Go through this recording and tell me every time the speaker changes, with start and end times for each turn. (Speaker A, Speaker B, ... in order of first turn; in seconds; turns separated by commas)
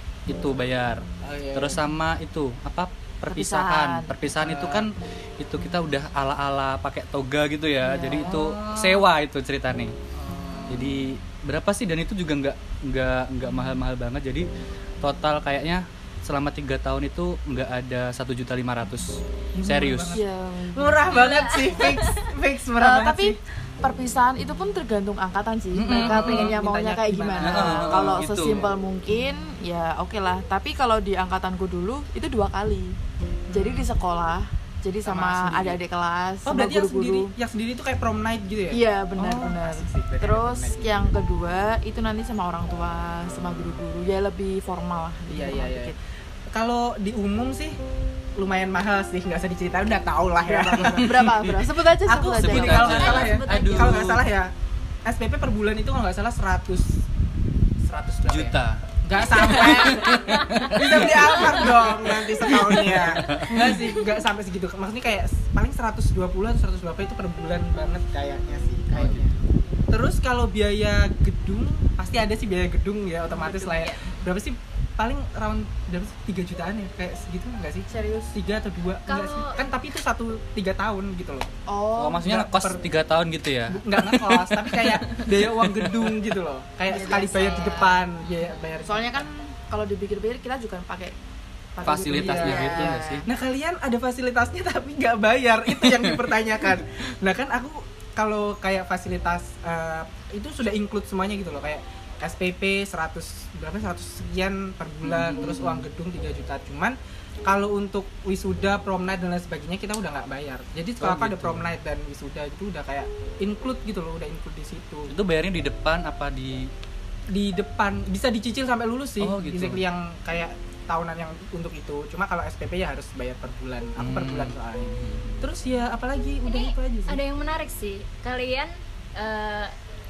Speaker A: 0.3-9.9, Speaker B: 1.2-1.8, Speaker C: 3.3-4.2, Speaker B: 4.3-4.9, Speaker C: 7.8-8.6, Speaker B: 8.3-9.0, Speaker B: 10.1-11.0, Speaker A: 10.7-14.5, Speaker A: 15.0-20.2, Speaker B: 19.5-20.2, Speaker C: 20.1-21.1, Speaker B: 20.7-23.4, Speaker D: 21.1-22.3, Speaker C: 22.8-33.0, Speaker A: 25.7-26.5, Speaker B: 25.9-28.7, Speaker A: 27.4-28.6, Speaker B: 33.5-33.9, Speaker C: 33.5-37.3, Speaker B: 35.0-35.8, Speaker B: 36.5-41.1, Speaker C: 38.7-45.9, Speaker B: 45.3-45.9, Speaker B: 46.5-47.8, Speaker B: 48.4-54.5, Speaker C: 50.4-53.1, Speaker A: 50.8-51.5, Speaker A: 52.4-54.2, Speaker D: 52.7-54.1, Speaker B: 55.0-57.0, Speaker B: 57.8-69.3, Speaker A: 58.3-63.9, Speaker D: 59.4-61.7, Speaker A: 68.9-69.3, Speaker B: 69.9-81.5, Speaker D: 73.3-74.2, Speaker C: 77.9-78.3, Speaker D: 79.1-79.7, Speaker C: 81.7-82.4, Speaker A: 82.0-84.9, Speaker B: 82.2-82.8, Speaker B: 83.7-89.2, Speaker A: 85.5-86.2, Speaker C: 86.9-88.1, Speaker D: 87.0-88.6, Speaker C: 88.8-91.2, Speaker C: 91.7-93.3, Speaker A: 91.8-93.2, Speaker B: 92.1-115.1, Speaker A: 95.8-96.2, Speaker A: 105.0-105.8, Speaker A: 111.0-111.7, Speaker A: 115.1-116.7, Speaker B: 117.3-127.2, Speaker A: 119.2-119.8, Speaker A: 124.0-125.5, Speaker D: 126.4-129.7